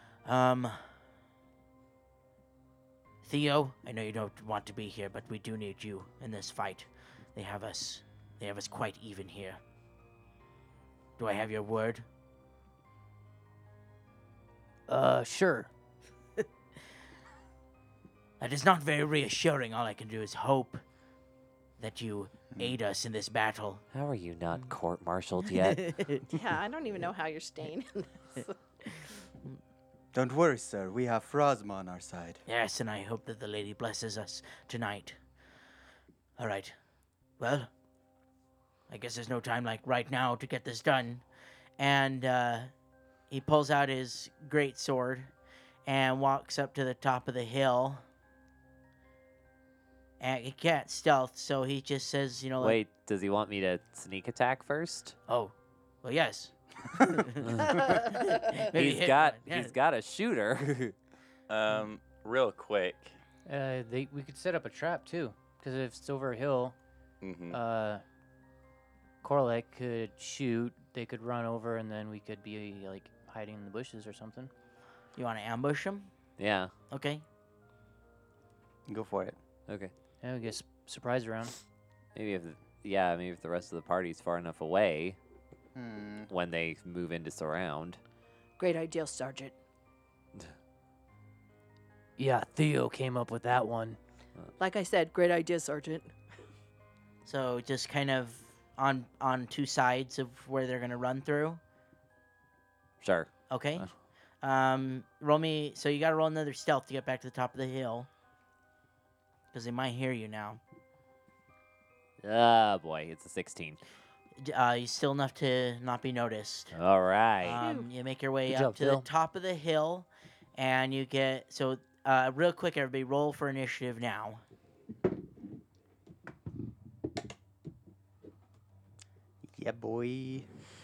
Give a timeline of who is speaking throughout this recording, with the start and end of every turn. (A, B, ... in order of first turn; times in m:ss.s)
0:00.2-0:00.8 A
0:03.2-0:09.6 A
0:11.2-0:12.0 A
0:14.9-0:15.7 B
0:18.4-0:20.8 A
0:21.8-0:23.8 A
0:23.9-0:25.8 C
0:25.6-0:26.2 A
0:26.3-0:28.5 D
0:30.1-0:32.4 E
0:32.5-0:35.2 A
0:36.4-0:36.7 A
0:37.4-0:37.7 A
0:38.9-0:41.2 A
0:41.8-0:42.7 A
0:43.3-0:45.3 A
0:45.8-0:48.0 A
0:50.2-0:52.8 A
0:52.6-0:55.2 C
0:55.3-0:59.7 A
0:58.7-1:00.9 C
1:01.5-1:03.1 F
1:03.4-1:06.7 B
1:07.2-1:07.6 F
1:07.5-1:08.0 B
1:09.2-1:14.5 B
1:15.2-1:16.1 A
1:16.4-1:16.7 C
1:16.9-1:17.2 A
1:18.9-1:19.4 E
1:19.7-1:19.9 C
1:20.2-1:21.6 B
1:22.1-1:25.2 C
1:25.7-1:26.3 E
1:26.3-1:28.0 C
1:28.6-1:29.5 D
1:32.2-1:34.0 B
1:34.6-1:36.1 D
1:37.2-1:41.6 A
1:43.0-1:43.9 C
1:43.5-1:43.9 A
1:44.4-1:48.1 A
1:49.5-1:50.6 A
1:52.2-1:53.8 C
1:54.4-1:56.7 A
1:56.7-1:57.6 C
1:57.4-2:04.4 A
1:57.6-1:57.9 D
1:58.5-1:59.1 B
2:09.4-2:10.5 E